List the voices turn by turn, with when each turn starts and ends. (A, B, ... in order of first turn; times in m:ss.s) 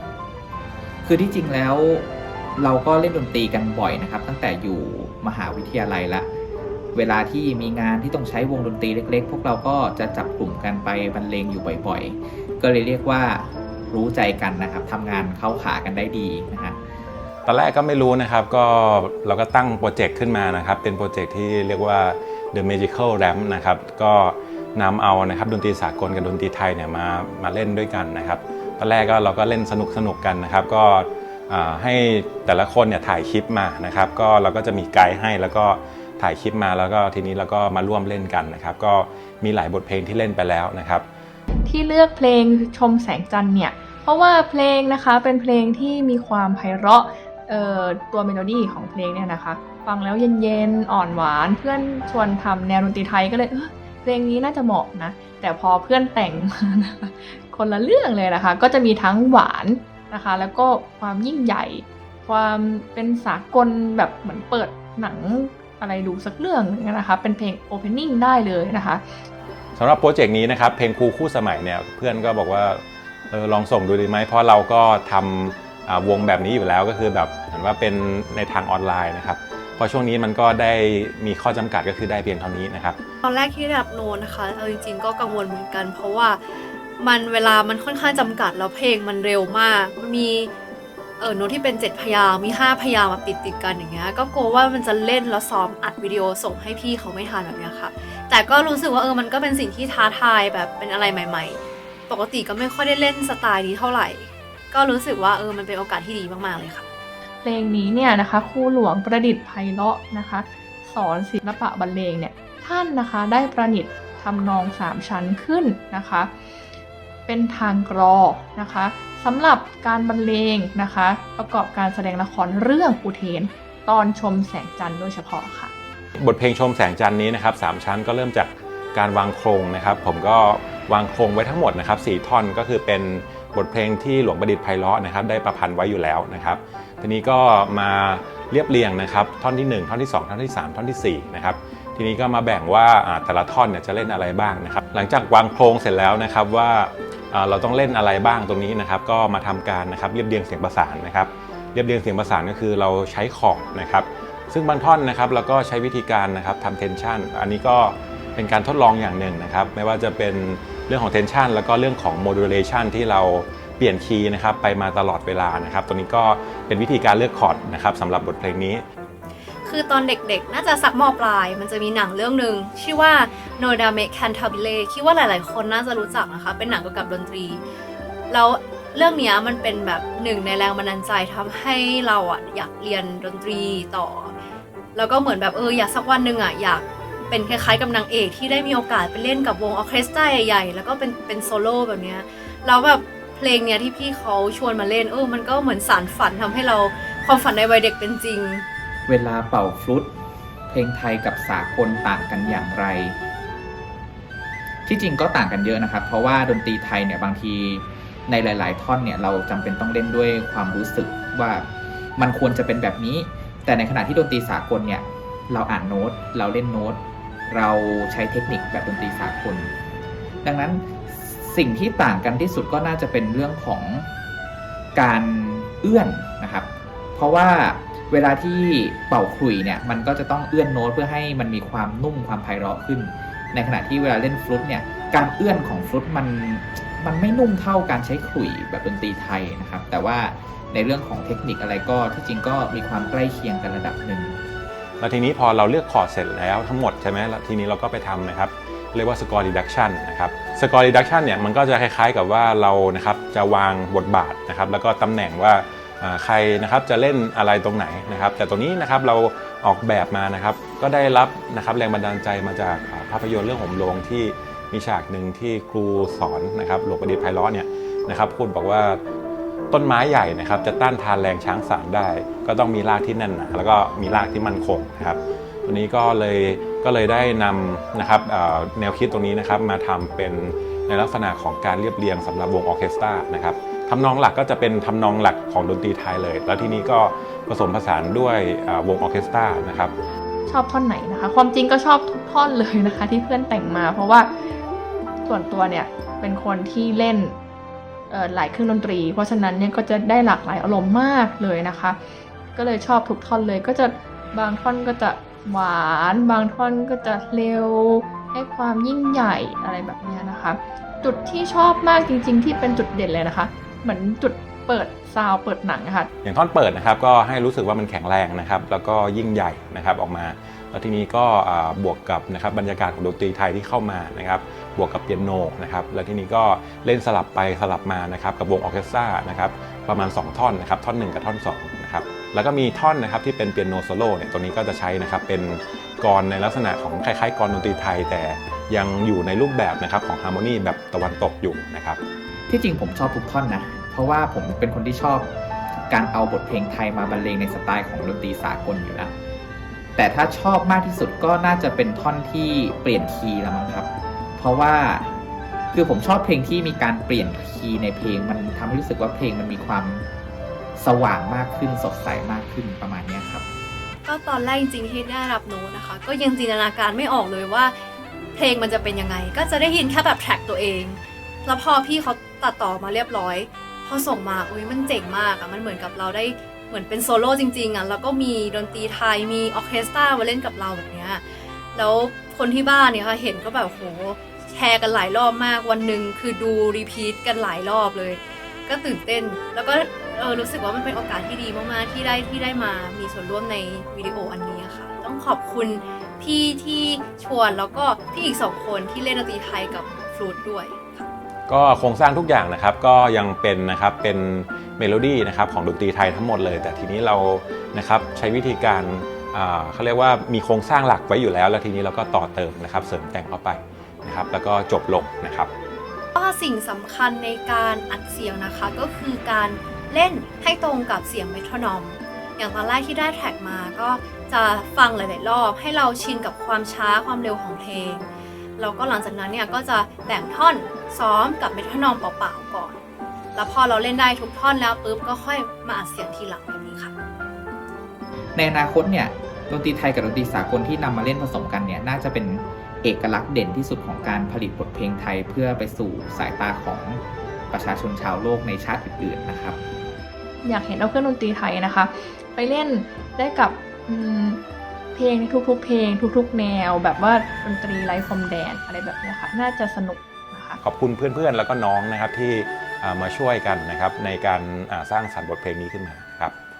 0:01.0-0:06.3 A
0:07.0-0:16.8 A
0:17.4-0:41.0 B
0:41.6-1:09.2 C
1:09.8-1:23.0 B
1:23.2-1:26.4 D
1:27.0-1:30.5 D
1:31.2-1:46.9 D
1:47.4-1:56.3 C
1:57.3-2:05.7 C
2:06.2-2:48.8 B
2:49.6-2:57.6 D
2:58.3-3:04.3 D
3:05.0-3:18.6 D
3:19.1-3:20.2 A
3:20.7-3:23.2 A
3:24.9-3:39.7 A
3:40.4-3:44.1 A
3:45.0-4:04.4 A
4:05.0-4:29.0 B
4:29.7-4:49.9 B
4:50.5-4:54.6 C
4:55.2-4:57.4 C
4:58.1-5:02.0 C
5:02.6-5:16.1 C
5:16.2-5:42.0 B
5:42.5-5:45.3 A
5:45.9-5:49.1 A
5:50.0-5:55.2 A
5:55.7-6:00.1 A
6:00.8-6:03.5 A
6:04.1-6:07.8 D
6:08.4-6:41.1 D
6:41.5-6:55.5 B
6:56.2-7:08.0 D
7:08.6-7:12.8 D
7:13.4-7:16.9 D
7:18.4-7:27.0 A
7:27.5-7:29.6 A
7:30.4-7:34.4 C
7:34.9-7:40.6 C
7:40.6-7:46.4 B